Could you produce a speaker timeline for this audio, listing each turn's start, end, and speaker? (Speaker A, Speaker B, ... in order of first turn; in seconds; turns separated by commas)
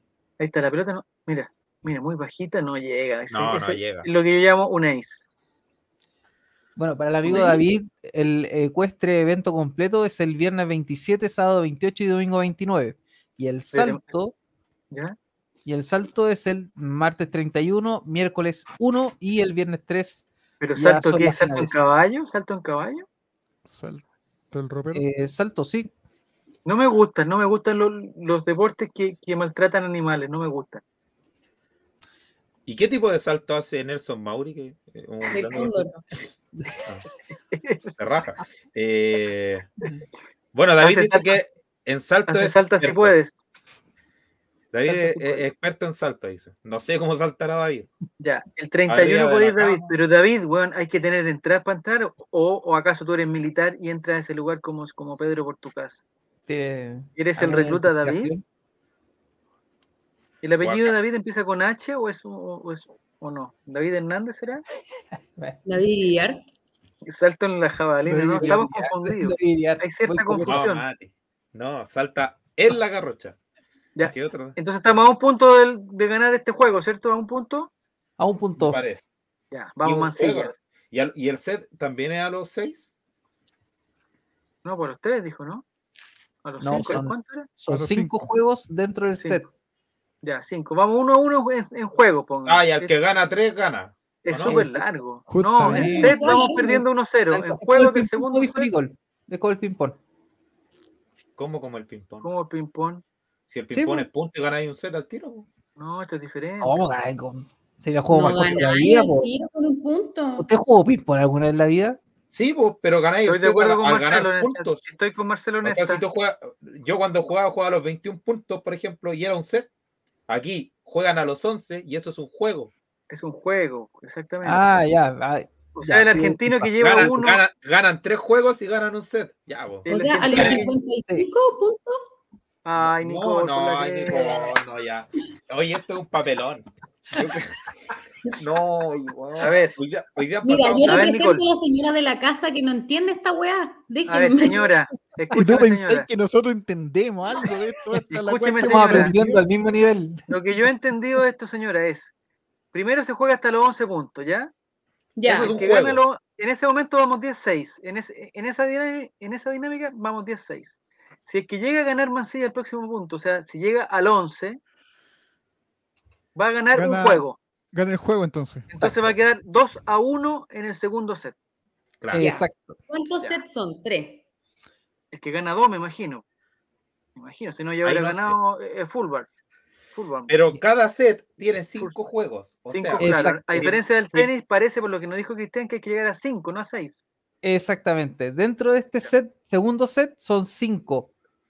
Speaker A: 0.4-5.3, Speaker B: 3.3-4.1, Speaker C: 6.8-14.3, Speaker A: 7.2-7.6, Speaker A: 13.7-14.0, Speaker C: 15.7-20.2, Speaker A: 20.6-23.1, Speaker C: 20.8-21.8, Speaker D: 23.6-25.0, Speaker C: 24.9-25.9, Speaker A: 26.6-30.8, Speaker B: 32.6-35.9, Speaker E: 35.3-36.0, Speaker A: 37.5-37.9, Speaker B: 38.0-39.7, Speaker B: 40.5-43.1, Speaker A: 40.8-41.4, Speaker A: 42.3-43.4, Speaker B: 44.7-47.9, Speaker A: 44.8-45.5, Speaker A: 48.2-56.0, Speaker B: 48.9-49.9, Speaker C: 56.5-58.4, Speaker A: 57.1-58.3, Speaker A: 60.4-64.6, Speaker B: 60.6-60.9, Speaker E: 65.6-66.4, Speaker A: 67.0-70.8, Speaker D: 68.0-68.6, Speaker C: 68.4-70.7, Speaker B: 70.4-73.3, Speaker A: 73.9-77.7, Speaker B: 74.0-74.6, Speaker C: 78.2-78.8, Speaker B: 78.6-79.0, Speaker A: 79.5-80.5, Speaker B: 79.8-82.9, Speaker A: 84.6-85.6, Speaker A: 86.4-87.5, Speaker C: 86.6-89.5, Speaker D: 87.7-88.3, Speaker A: 90.2-92.9, Speaker B: 92.5-94.6, Speaker A: 94.2-98.7, Speaker C: 94.5-94.8, Speaker D: 95.3-96.1, Speaker C: 95.6-96.4, Speaker E: 95.7-96.8, Speaker C: 97.3-100.0, Speaker B: 101.4-102.3, Speaker A: 102.2-103.0, Speaker B: 103.5-105.5, Speaker C: 103.7-104.1, Speaker A: 105.8-106.8, Speaker C: 106.6-109.2, Speaker E: 108.1-110.5, Speaker C: 110.4-112.0, Speaker B: 112.3-114.8, Speaker A: 113.2-116.0, Speaker B: 115.6-119.7, Speaker B: 120.3-122.7, Speaker A: 123.1-124.6, Speaker C: 124.4-127.1, Speaker A: 125.7-127.4, Speaker B: 126.8-130.7, Speaker A: 129.8-130.7, Speaker E: 129.8-132.0, Speaker A: 132.6-134.5, Speaker B: 132.8-137.5, Speaker B: 138.3-141.1, Speaker A: 139.4-139.7, Speaker E: 140.4-144.7, Speaker A: 140.8-141.4, Speaker A: 144.1-146.1, Speaker D: 145.3-149.4, Speaker A: 148.1-149.1, Speaker C: 148.6-150.3, Speaker A: 150.3-152.1, Speaker A: 152.7-154.5, Speaker E: 155.2-155.5, Speaker B: 155.2-156.0, Speaker A: 155.2-160.7, Speaker A: 161.2-164.6, Speaker A: 166.3-167.4, Speaker D: 166.7-168.7, Speaker A: 168.7-171.3, Speaker B: 168.8-169.1, Speaker C: 172.1-172.8, Speaker E: 172.1-174.2, Speaker A: 175.1-176.2, Speaker A: 177.2-179.3, Speaker B: 177.8-178.4, Speaker A: 179.9-180.3, Speaker B: 180.3-183.7, Speaker A: 182.7-187.0, Speaker C: 183.0-184.3, Speaker C: 187.4-191.1